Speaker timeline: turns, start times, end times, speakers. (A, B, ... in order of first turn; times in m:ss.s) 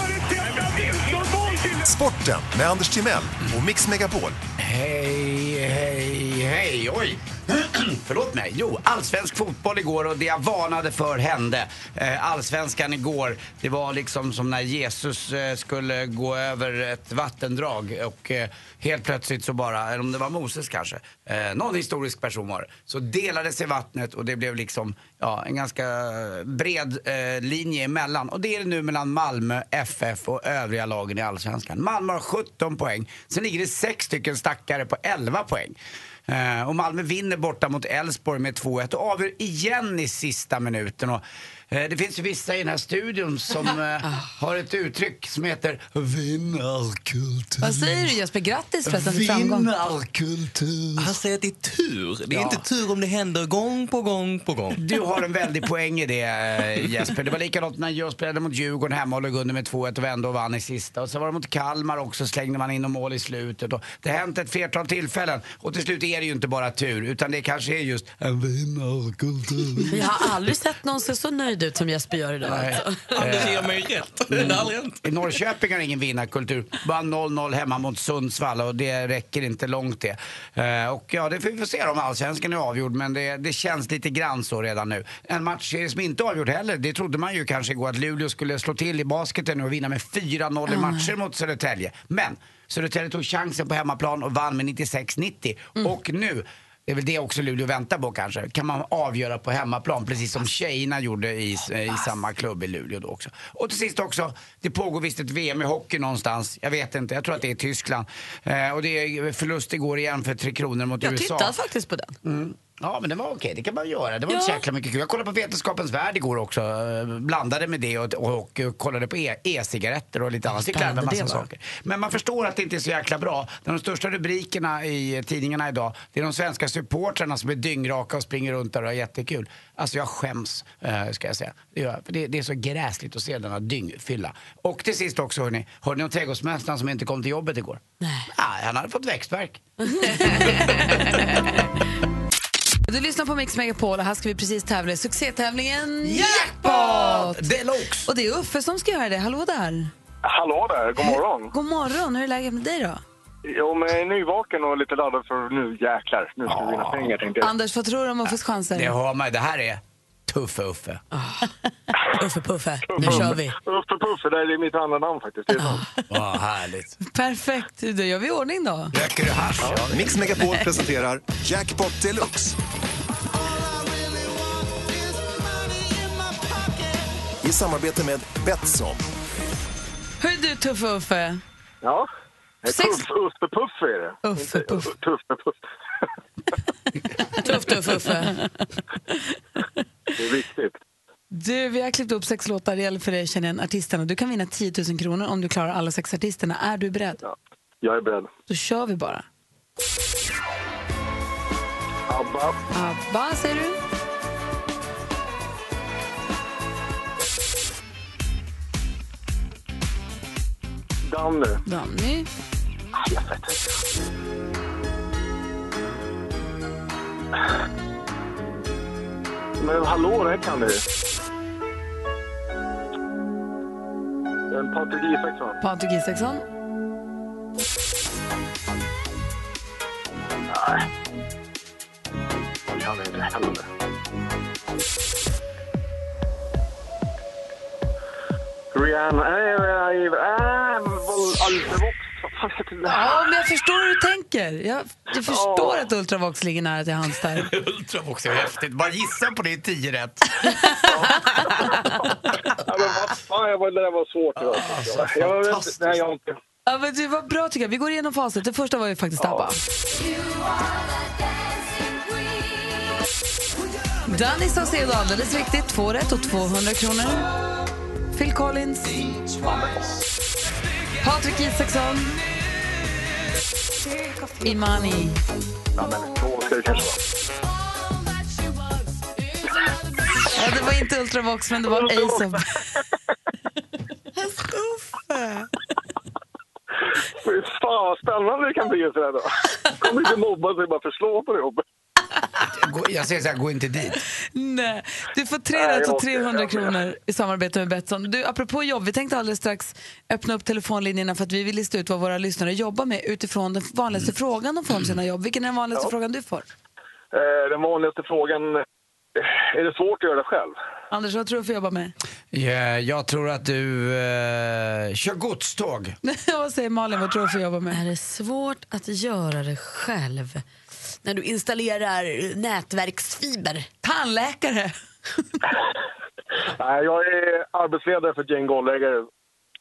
0:01.8-0:04.4 A
0:04.6-0:48.1 B
0:47.6-0:49.7 C
0:48.8-0:51.1 B
0:51.0-0:54.8 D
0:52.3-0:52.6 B
0:54.7-1:10.4 B
1:09.8-1:13.2 E
1:12.4-1:51.6 B
1:13.1-1:15.0 D
1:30.7-1:31.1 C
1:51.0-1:52.1 E
1:52.2-2:20.9 B
1:54.3-1:54.6 E
2:00.5-2:01.5 E
2:18.0-2:18.3 E
2:19.9-2:21.3 E
2:20.2-2:21.0 C
2:22.9-2:27.4 C
2:26.0-2:28.1 B
2:28.0-2:29.9 C
2:30.2-2:31.5 F
2:31.5-2:33.0 C
2:33.4-2:37.5 F
2:36.5-2:37.2 B
2:37.4-2:38.9 C
2:38.7-2:41.0 B
2:41.1-2:43.6 E
2:42.9-2:45.8 F
2:43.0-2:43.3 B
2:46.1-2:47.0 B
2:47.0-2:48.9 C
2:48.9-2:50.4 B
2:49.8-2:52.6 A
2:57.4-2:59.0 A
3:00.2-3:01.4 C
3:01.8-3:02.1 F
3:02.6-3:05.6 F
3:02.7-3:03.1 C
3:04.2-3:04.9 C
3:07.3-3:08.4 E
3:10.2-3:10.8 F
3:11.3-3:17.2 C
3:17.2-3:18.3 F
3:18.5-3:19.2 C
3:22.1-3:22.6 F
3:22.7-3:23.8 C
3:31.0-3:31.6 F
3:31.6-3:32.3 C
3:33.0-3:33.6 F
3:39.6-3:40.8 F
3:44.5-3:45.6 F
3:45.6-3:46.4 C
3:50.5-3:50.8 F
3:52.7-3:53.6 F
3:58.7-4:03.1 F
4:02.8-4:07.5 C
4:05.2-4:05.8 F
4:07.4-4:10.3 B
4:10.9-4:11.3 F
4:11.4-4:11.8 B
4:12.6-4:16.3 F
4:14.4-4:16.0 B
4:16.6-4:19.6 C
4:24.0-4:27.3 C
4:28.1-4:29.1 C
4:29.4-4:29.9 F
4:31.0-4:32.2 C
4:34.4-4:35.2 C
4:35.8-4:37.0 F
4:40.3-4:42.4 C
4:41.7-4:42.4 F
4:47.2-4:51.6 F
4:52.5-4:54.0 B
4:54.3-5:06.5 C
4:55.5-4:56.8 F
5:07.1-5:08.6 F
5:09.2-5:10.6 F
5:10.9-5:11.9 C
5:12.3-5:16.0 B
5:16.0-5:17.8 C
5:17.7-5:23.7 E
5:23.8-5:24.7 C
5:26.5-5:29.1 F